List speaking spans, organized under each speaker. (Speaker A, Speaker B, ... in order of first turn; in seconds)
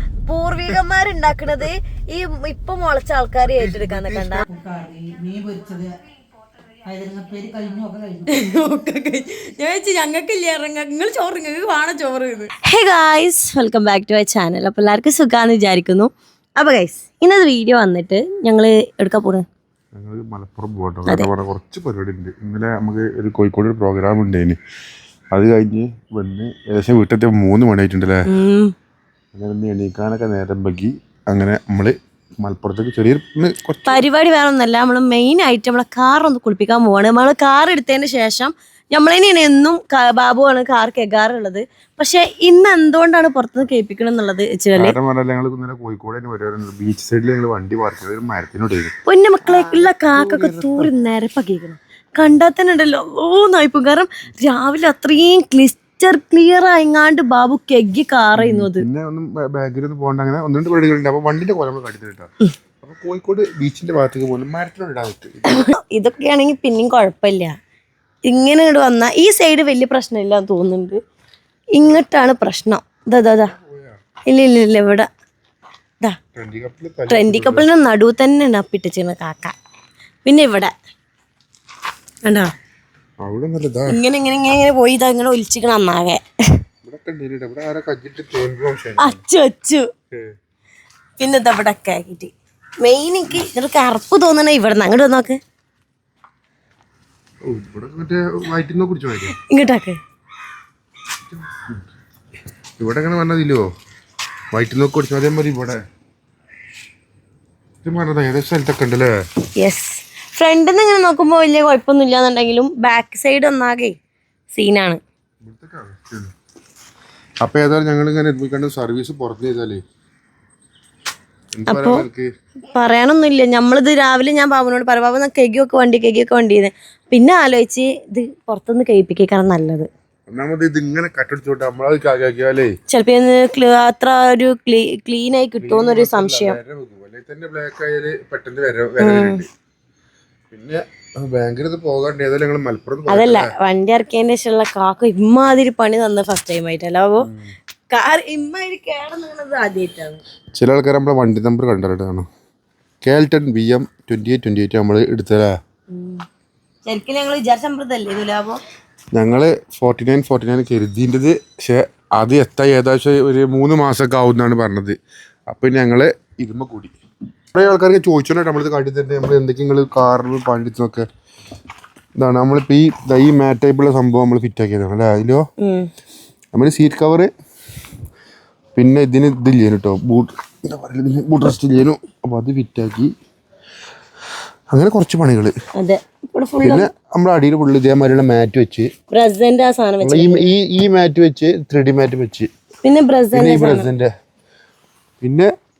Speaker A: 0.3-4.4, 8.3-19.4, 28.3-28.7, 33.9-45.0, 49.0-58.9, 65.5-67.5, 68.2-71.0, 71.7-73.5, 74.3-75.1, 77.1-79.5, 80.2-80.7, 82.2-82.5, 83.9-86.2, 89.0-89.9, 91.2-92.3, 92.8-95.4, 99.4-100.0, 109.6-114.0, 114.5-115.0, 121.7-122.0, 122.7-129.9, 132.9-136.6, 139.0-139.4, 143.1-147.2, 147.9-150.2, 155.9-156.2, 156.8-158.6, 175.6-175.9, 185.8-186.9, 189.1-190.5, 192.8-193.9
Speaker B: 3.4-4.4, 19.9-24.6, 25.3-28.2, 29.3-34.0, 44.7-48.9, 49.5-50.9, 58.4-62.3, 62.8-65.6, 73.4-74.0, 76.3-77.7, 83.2-84.0, 86.8-89.2, 97.4-99.3, 101.3-101.8, 102.8-103.6, 104.5-105.8, 107.8-109.1, 115.4-116.3, 117.4-119.8, 121.5-122.3, 130.3-132.7, 135.6-139.5, 140.5-143.5, 147.2-147.5, 150.5-152.3, 153.0-155.5, 159.1-165.0, 165.5-166.9, 167.5-171.1, 172.2-175.4, 176.5-177.3, 178.7-183.1, 184.7-185.5, 186.6-188.9, 190.0-192.5, 193.3-194.1, 195.2-195.5
Speaker C: 4.5-5.9, 6.8-8.3